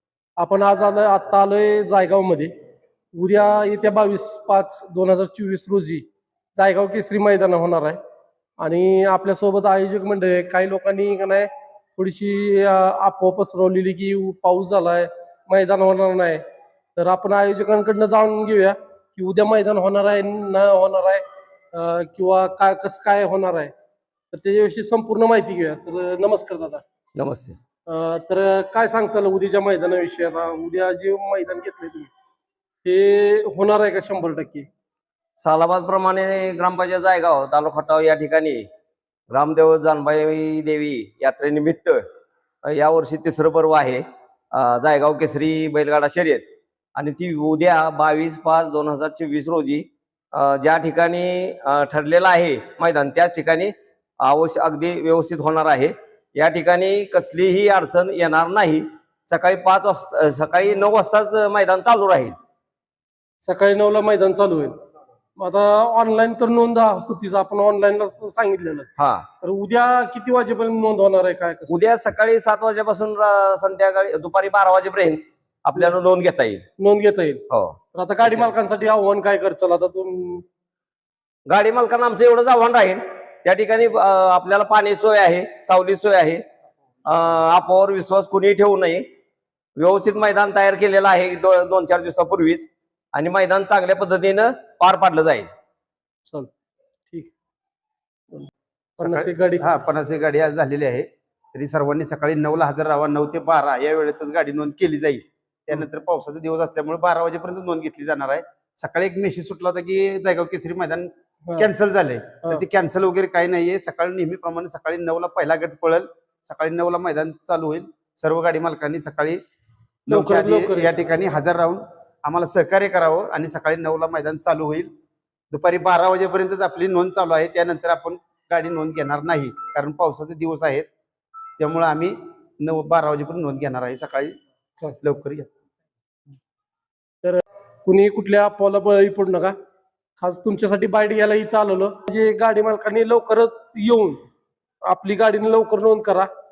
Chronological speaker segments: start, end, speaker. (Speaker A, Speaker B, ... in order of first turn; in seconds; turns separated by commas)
Speaker A: 0.4-2.5, Speaker A: 3.1-8.0, Speaker A: 8.6-16.4, Speaker A: 16.9-23.7, Speaker A: 24.3-26.8, Speaker B: 27.1-27.6, Speaker A: 27.9-32.1, Speaker A: 32.8-34.7, Speaker B: 35.4-38.6, Speaker B: 39.3-42.0, Speaker B: 42.6-62.4, Speaker A: 63.4-64.8, Speaker A: 65.3-68.9, Speaker B: 69.0-69.3, Speaker A: 69.4-71.8, Speaker B: 71.7-76.6, Speaker A: 76.8-80.4, Speaker B: 77.5-78.5, Speaker B: 81.5-86.4, Speaker B: 87.0-89.0, Speaker B: 89.8-95.5, Speaker A: 96.2-96.5, Speaker C: 99.0-119.4, Speaker A: 99.0-99.9, Speaker A: 120.1-120.9, Speaker C: 120.1-124.9, Speaker C: 125.5-130.9, Speaker C: 131.6-134.3, Speaker C: 135.0-135.5, Speaker A: 137.2-139.5, Speaker A: 140.2-144.2, Speaker A: 144.8-146.3